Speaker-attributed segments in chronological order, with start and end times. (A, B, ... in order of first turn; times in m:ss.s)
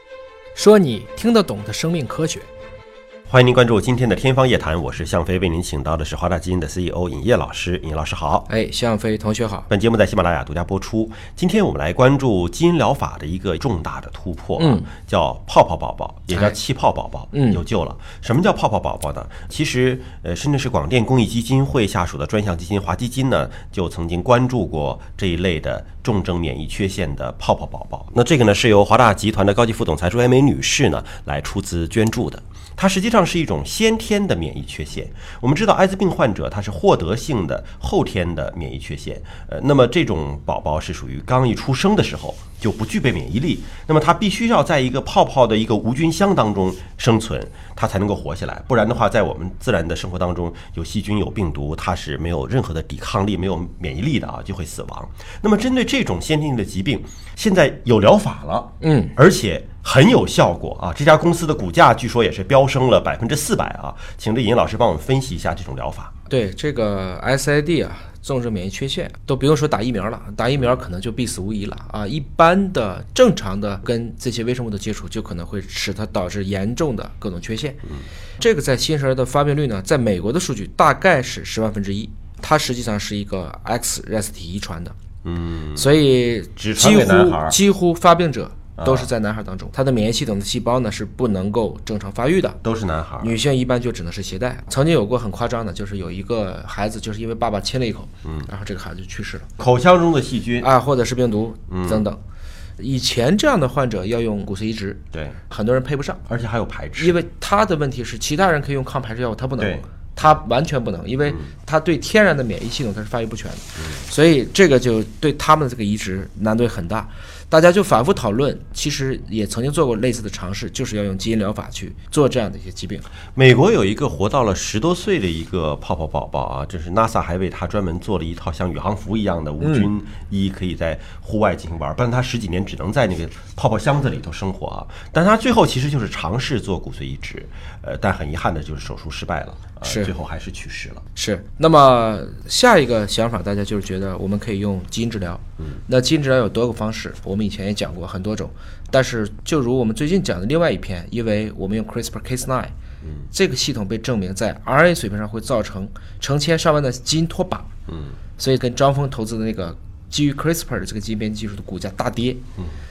0:00.5-0:02.5 A
0:03.3-0:08.5 B
0:08.5-0:09.7 A
0:09.7-1:06.1 B
0:14.6-0:14.9 A
0:17.3-0:17.6 A
0:58.8-0:59.1 A
1:06.3-1:17.8 A
1:18.4-1:25.0 A
1:25.2-1:25.9 B
1:25.8-1:32.6 A
1:26.6-1:27.6 B
1:28.8-1:29.1 B
1:32.6-1:33.4 B
1:33.2-1:39.5 A
1:39.6-1:40.7 B
1:40.6-1:42.2 A
1:41.7-1:42.0 B
1:42.8-1:46.2 A
1:45.1-1:45.4 B
1:46.3-1:47.2 B
1:47.0-2:03.0 A
1:49.6-1:49.8 B
1:53.8-1:54.0 B
2:03.3-2:21.0 B
2:09.6-2:09.9 A
2:19.8-2:20.1 A
2:21.1-2:32.7 A
2:33.0-2:33.3 B
2:33.3-2:37.7 A
2:37.9-2:38.2 B
2:38.4-2:42.4 A